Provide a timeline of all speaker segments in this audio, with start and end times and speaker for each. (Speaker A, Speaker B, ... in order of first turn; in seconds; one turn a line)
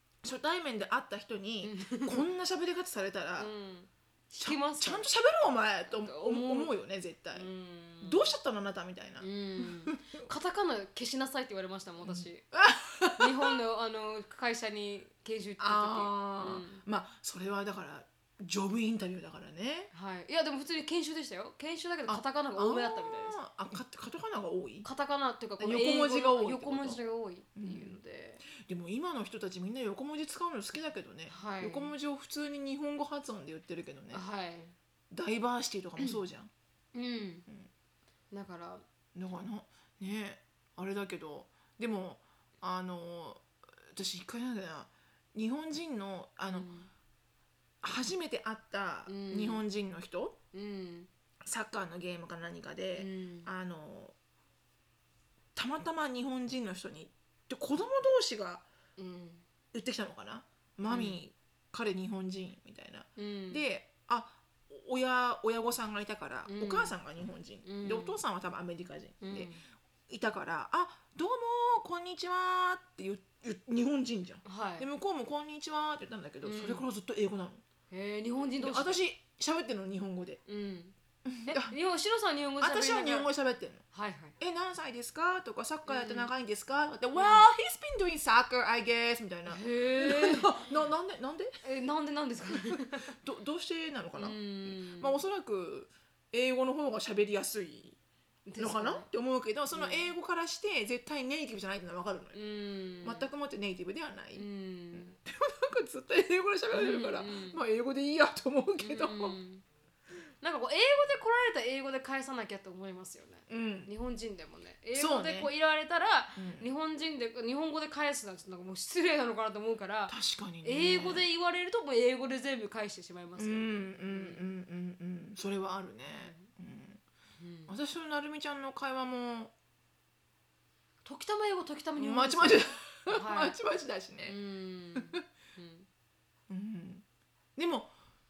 Speaker A: 0.2-3.5
Speaker B: 1.6-2.2
Speaker B: 3.4-5.1
Speaker A: 4.4-7.5
Speaker B: 5.9-6.7
Speaker B: 7.3-8.3
Speaker A: 8.0-10.2
Speaker B: 9.2-12.4
Speaker A: 12.0-13.5
Speaker B: 13.2-16.8
Speaker A: 15.6-19.9
Speaker B: 19.9-23.4
Speaker A: 22.1-24.9
Speaker B: 24.8-28.4
Speaker A: 25.6-27.0
Speaker A: 27.6-28.0
Speaker A: 28.5-34.2
Speaker B: 31.3-31.9
Speaker B: 34.1-34.7
Speaker A: 35.1-36.5
Speaker B: 36.9-37.5
Speaker B: 38.3-38.8
Speaker A: 39.1-46.7
Speaker B: 46.5-46.9
Speaker A: 47.8-50.4
Speaker B: 49.1-49.6
Speaker B: 50.5-51.1
Speaker A: 51.4-54.1
Speaker B: 53.0-53.5
Speaker A: 55.5-58.6
Speaker B: 59.0-59.4
Speaker A: 59.7-69.5
Speaker B: 60.9-61.2
Speaker B: 63.2-63.6
Speaker B: 66.5-66.9
Speaker B: 67.6-68.2
Speaker B: 69.2-69.6
Speaker A: 70.1-77.6
Speaker B: 74.4-74.9
Speaker B: 76.4-76.8
Speaker B: 77.9-79.0
Speaker A: 78.6-80.4
Speaker B: 80.5-80.9
Speaker A: 81.2-81.8
Speaker B: 81.5-83.3
Speaker A: 82.6-83.8
Speaker B: 83.9-84.3
Speaker A: 84.4-91.6
Speaker B: 85.8-86.3
Speaker B: 87.2-87.4
Speaker B: 89.5-90.6
Speaker B: 91.6-93.1
Speaker A: 92.5-98.0
Speaker B: 94.2-95.2
Speaker B: 98.5-99.1
Speaker A: 98.6-102.4
Speaker B: 99.7-100.1
Speaker B: 102.3-103.3
Speaker A: 103.0-109.4
Speaker B: 104.3-105.2
Speaker B: 106.7-107.6
Speaker B: 108.8-109.6
Speaker B: 110.4-124.4
Speaker A: 113.5-113.9
Speaker A: 114.9-115.5
Speaker A: 116.4-116.7
Speaker A: 120.1-121.3
Speaker A: 123.4-127.0
Speaker B: 126.1-126.5
Speaker B: 127.4-127.7
Speaker A: 127.7-129.5
Speaker B: 131.0-133.6
Speaker A: 132.0-134.3
Speaker B: 134.2-135.9
Speaker A: 136.5-137.0
Speaker A: 137.6-137.9